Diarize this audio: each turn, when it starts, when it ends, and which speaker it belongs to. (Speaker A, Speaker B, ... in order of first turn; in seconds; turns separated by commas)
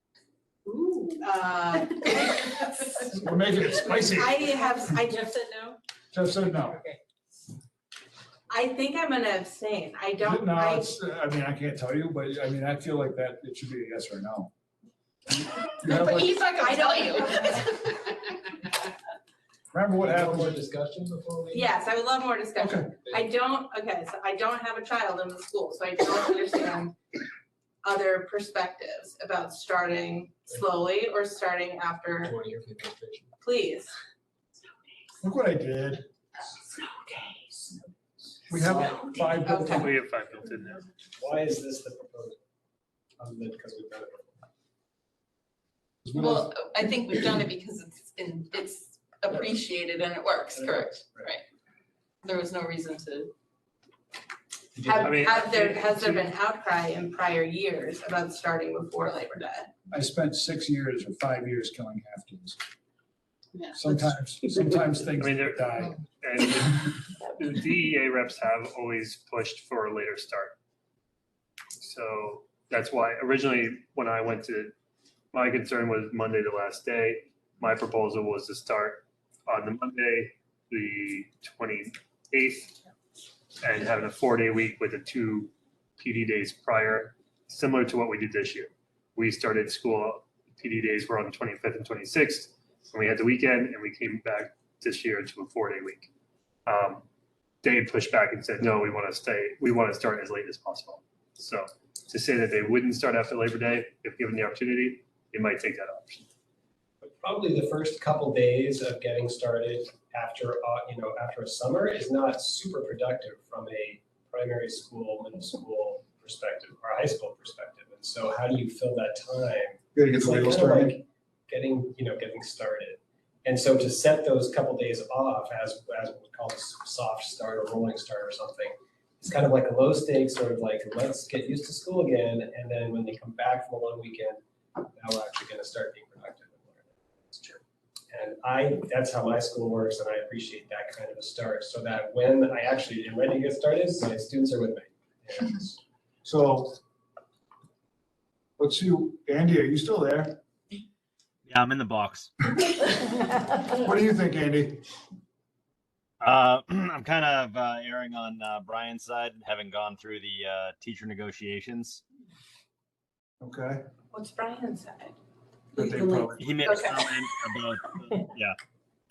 Speaker A: 0.7-3.1, Speaker B: 3.1-4.6, Speaker A: 3.9-5.7, Speaker B: 6.1-6.8, Speaker A: 8.5-10.9, Speaker B: 10.2-14.5, Speaker B: 15.7-16.3, Speaker C: 15.8-17.9, Speaker A: 16.6-17.9, Speaker B: 19.7-20.6, Speaker D: 20.0-21.7, Speaker A: 21.5-26.9, Speaker B: 22.6-22.9, Speaker A: 27.8-32.3, Speaker D: 32.2-33.3, Speaker A: 33.4-33.9, Speaker B: 35.2-36.0, Speaker A: 36.5-37.8, Speaker B: 38.5-39.9, Speaker A: 38.5-39.9, Speaker E: 39.7-40.8, Speaker D: 41.2-42.4, Speaker D: 43.2-44.4, Speaker B: 46.0-46.5, Speaker C: 46.1-51.4, Speaker D: 50.5-51.3, Speaker C: 52.2-53.3, Speaker B: 54.8-55.1, Speaker A: 54.8-59.7, Speaker E: 55.0-56.3, Speaker B: 59.9-62.6, Speaker B: 63.7-65.9, Speaker E: 65.1-70.6, Speaker E: 71.8-74.7, Speaker E: 75.3-82.8, Speaker E: 83.6-96.1, Speaker E: 96.7-97.0, Speaker E: 97.6-106.3, Speaker D: 107.0-145.8, Speaker B: 119.9-121.0, Speaker B: 146.2-146.8, Speaker B: 148.6-150.4, Speaker F: 151.5-152.3, Speaker B: 153.8-154.8, Speaker F: 156.2-162.0, Speaker B: 163.4-163.8, Speaker C: 164.1-165.1, Speaker B: 165.7-166.6, Speaker F: 166.4-168.6, Speaker C: 166.6-167.0